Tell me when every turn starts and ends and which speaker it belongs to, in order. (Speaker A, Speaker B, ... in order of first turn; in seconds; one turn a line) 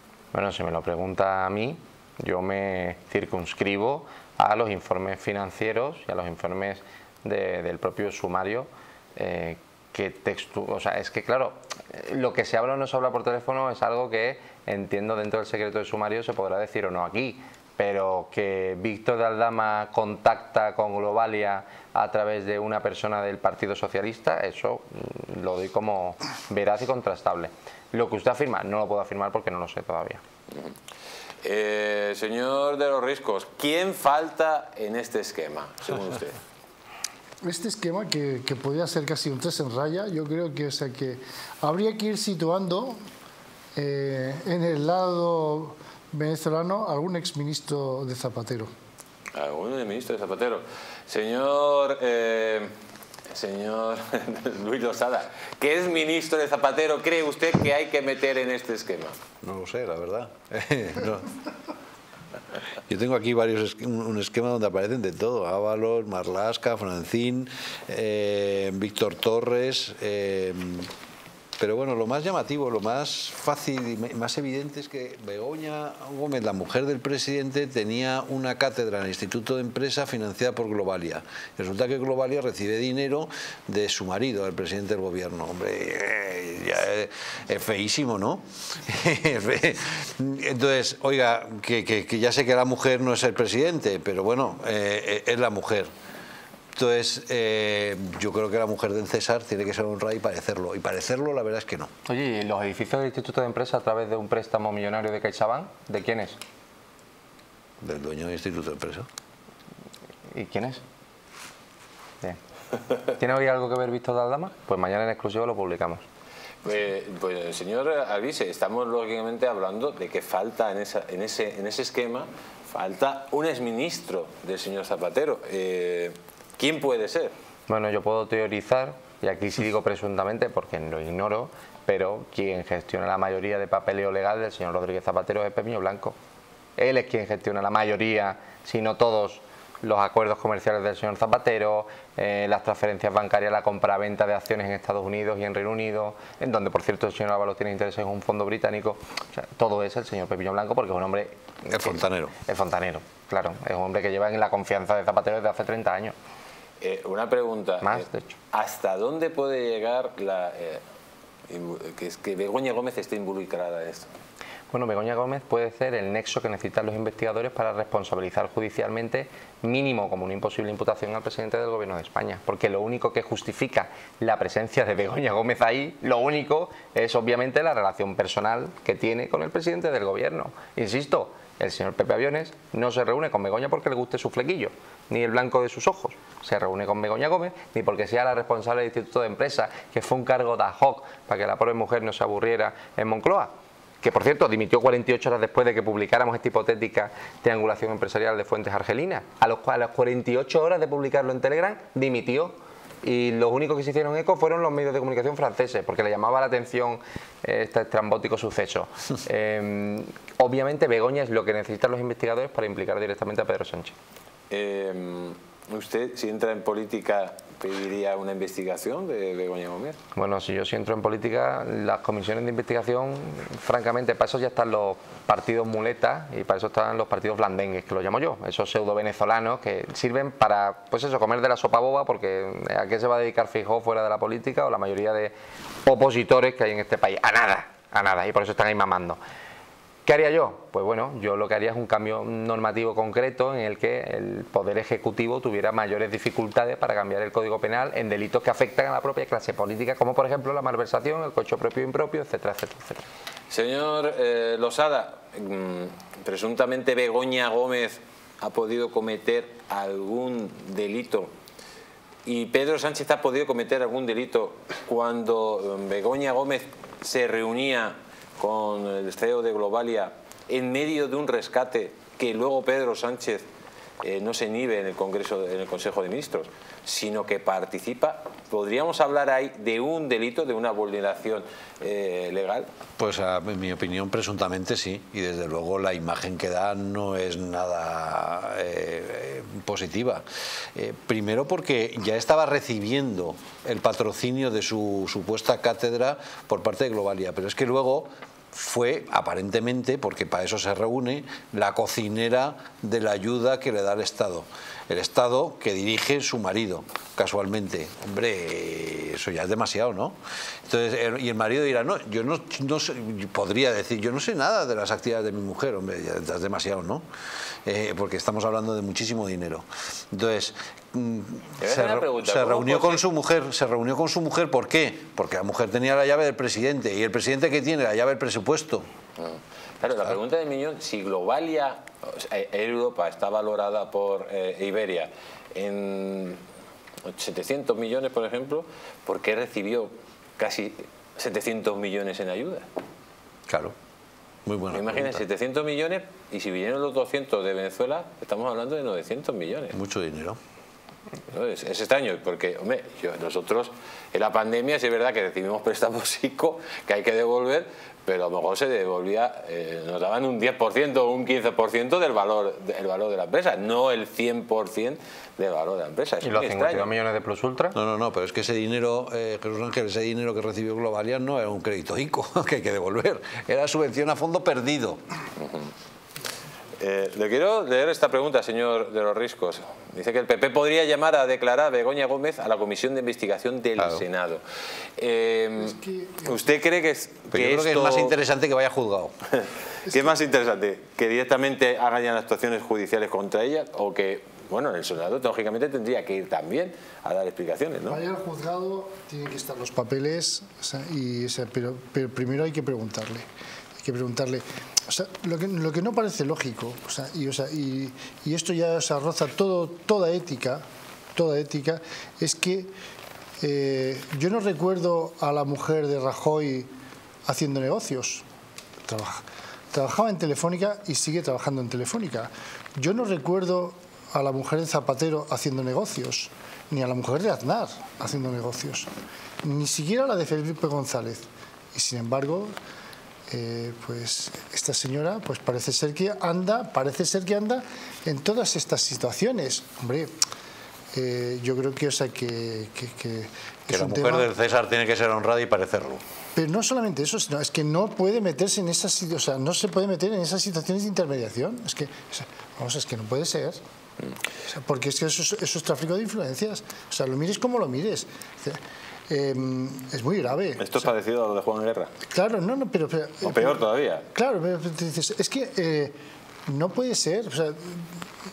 Speaker A: 0.3-30.2
Speaker B: 31.4-36.4
Speaker C: 37.4-43.0
Speaker C: 43.8-48.7
Speaker B: 49.3-52.7
Speaker B: 53.3-59.2
Speaker D: 59.4-61.3
Speaker D: 62.9-70.9
Speaker D: 71.6-95.9
Speaker D: 96.8-101.9
Speaker A: 102.1-106.4
Speaker D: 107.8-109.1
Speaker A: 110.3-110.8
Speaker A: 113.2-116.0
Speaker B: 116.6-127.3
Speaker A: 127.7-136.2
Speaker A: 136.8-156.2
Speaker D: 151.7-152.3
Speaker B: 156.8-160.8
Speaker A: 157.8-158.3
Speaker B: 161.5-164.1
Speaker A: 164.7-193.5
Speaker A: 194.0-213.9
Speaker B: 214.5-220.0
Speaker A: 220.2-235.3
Speaker A: 235.8-239.2
Speaker A: 240.1-253.1
Speaker B: 253.5-261.3
Speaker B: 262.2-273.5
Speaker B: 274.0-282.7
Speaker D: 283.0-290.2
Speaker D: 290.8-317.0
Speaker D: 317.6-328.9
Speaker B: 321.6-323.0
Speaker B: 329.2-336.4
Speaker B: 337.1-342.7
Speaker D: 343.5-343.8
Speaker D: 344.5-345.2
Speaker B: 344.7-349.8
Speaker D: 349.7-350.4
Speaker B: 351.3-366.9
Speaker A: 366.2-367.8
Speaker D: 367.8-375.0
Speaker B: 375.4-375.7
Speaker B: 376.8-384.4
Speaker D: 383.8-384.1
Speaker B: 385.0-388.1
Speaker C: 385.6-386.3
Speaker D: 387.3-389.2
Speaker B: 389.4-398.0
Speaker C: 397.9-403.3
Speaker C: 403.8-410.6
Speaker C: 411.1-412.7
Speaker C: 413.4-416.7
Speaker C: 417.3-418.2
Speaker C: 418.9-428.9
Speaker C: 429.4-432.6
Speaker C: 433.3-440.1
Speaker C: 440.9-444.3
Speaker D: 443.7-446.0
Speaker C: 446.4-453.6
Speaker C: 454.5-460.9
Speaker B: 460.6-461.9
Speaker C: 462.1-466.0
Speaker B: 463.2-464.1
Speaker C: 466.5-467.9